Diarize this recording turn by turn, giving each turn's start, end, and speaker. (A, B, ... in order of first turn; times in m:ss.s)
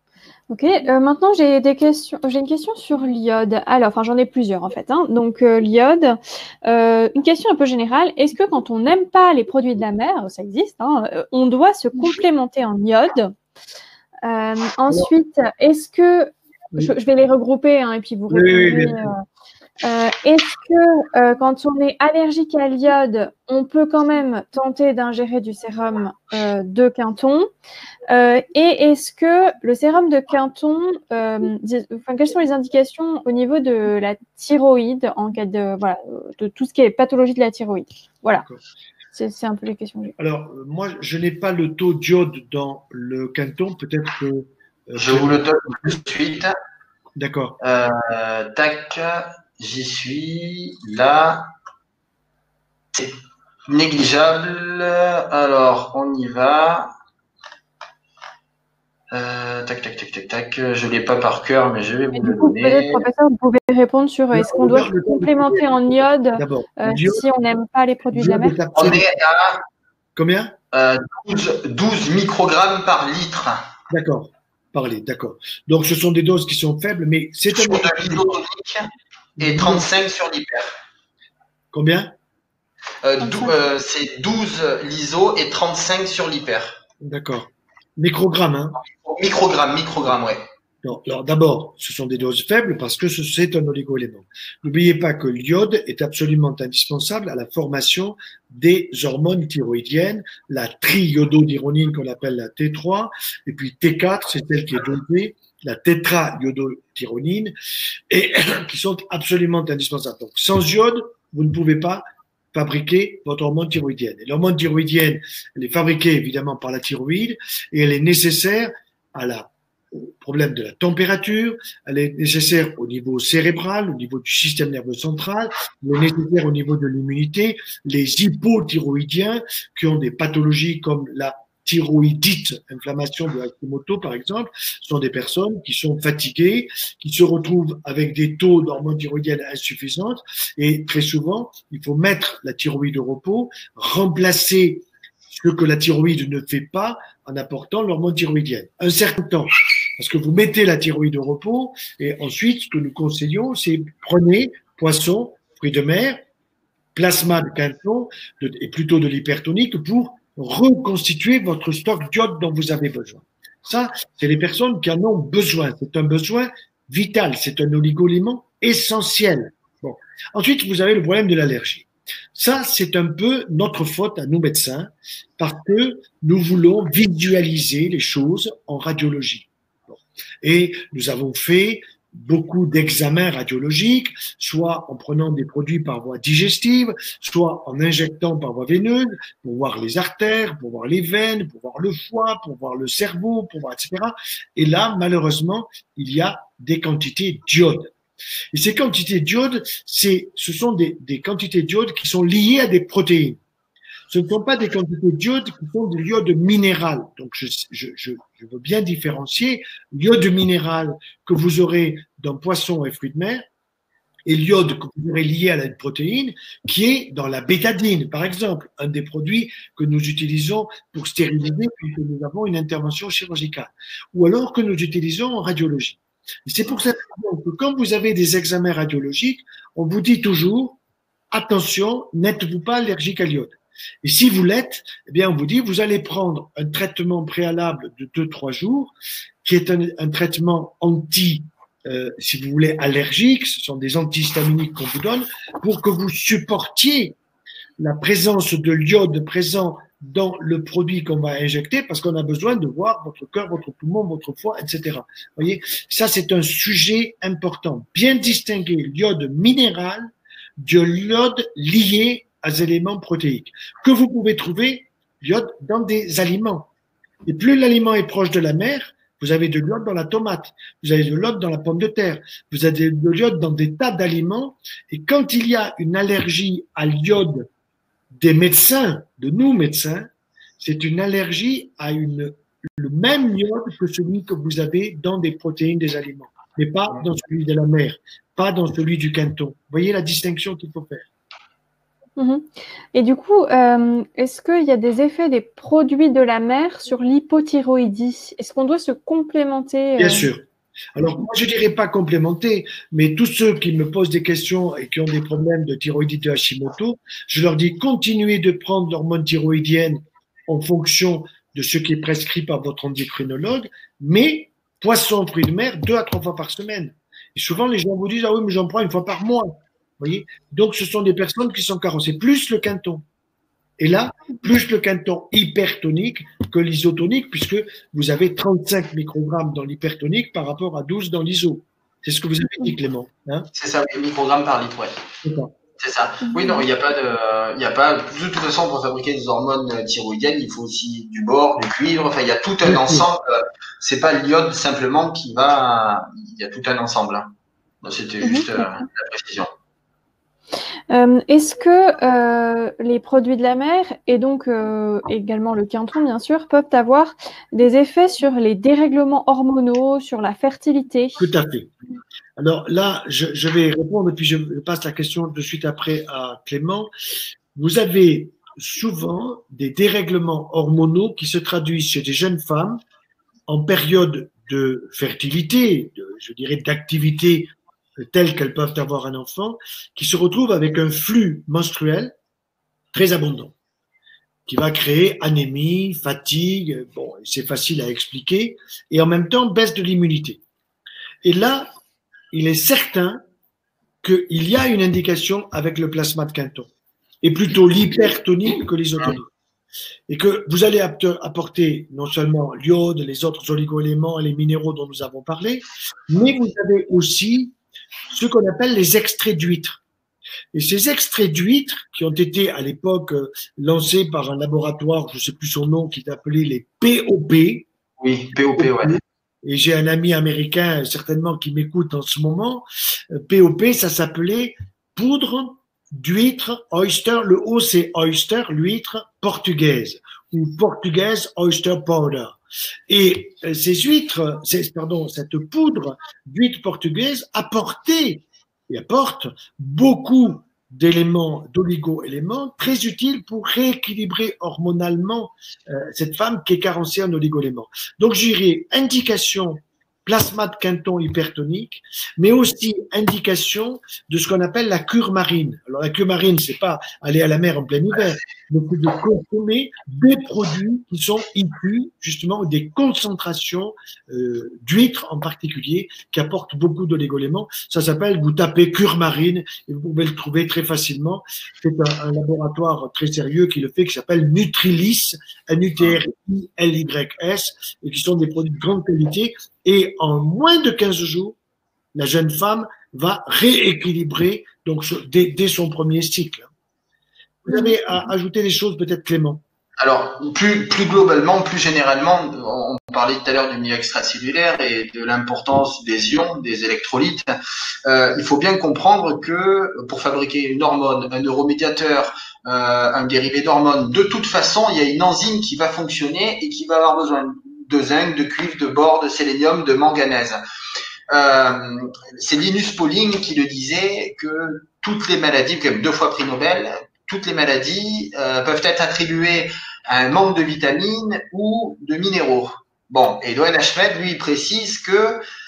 0:00.5-0:13.3 A
0:14.2-0:19.2 A
0:18.3-0:19.1 B
0:19.8-0:27.5 A
0:28.1-0:38.4 A
0:39.1-0:40.1 A
0:40.2-0:45.4 B
0:45.0-0:46.5 C
0:47.2-0:47.6 B
0:47.6-0:51.5 C
0:53.7-0:56.9 C
0:59.1-1:03.0 C
1:02.1-1:08.6 A
1:04.3-1:05.8 B
1:06.4-1:07.2 B
1:08.1-1:09.0 B
1:08.7-1:09.6 C
1:10.2-1:10.5 B
1:10.7-1:13.6 C
1:13.9-1:18.3 B
1:17.5-1:20.8 C
1:19.4-1:19.8 B
1:21.7-1:22.1 B
1:23.0-1:26.8 C
1:23.2-1:23.5 A
1:27.0-1:28.8 B
1:28.9-1:30.4 C
1:30.8-1:47.5 B
1:48.1-2:36.2 B
2:36.9-3:17.9 B
3:18.5-3:23.4 B
3:24.1-3:33.4 B
3:34.2-3:50.8 B
3:51.3-3:58.9 B
3:59.4-4:07.2 B
4:07.8-4:26.7 B
4:27.2-4:37.5 B
4:38.1-4:40.1 B
4:40.6-4:51.0 B
4:52.2-5:00.3 A
5:00.0-5:23.0 B
5:23.8-5:33.5 B
5:33.5-5:34.9 C
5:35.2-5:35.5 B
5:35.8-5:47.3 C
5:36.2-5:36.6 A
5:42.6-5:43.0 B
5:47.8-5:49.5 C
5:48.2-5:48.6 A
5:50.9-6:01.2 A
6:01.2-6:01.7 B
6:02.4-6:06.9 B
6:07.5-6:12.8 B
6:13.5-6:22.1 B
6:22.9-6:23.5 B
6:24.5-6:30.4 B
6:31.2-6:31.7 B
6:32.3-6:33.2 B
6:34.0-6:36.7 B
6:37.2-6:39.3 B
6:40.1-6:47.5 B
6:48.1-6:49.8 B
6:50.5-6:57.7 B
6:58.0-6:59.0 C
6:58.4-7:12.4 B
7:12.9-8:01.4 B
8:01.9-8:06.5 B
8:07.4-8:09.4 B
8:07.5-8:08.0 A
8:09.8-8:17.3 C
8:17.8-8:30.4 C
8:31.1-8:45.2 C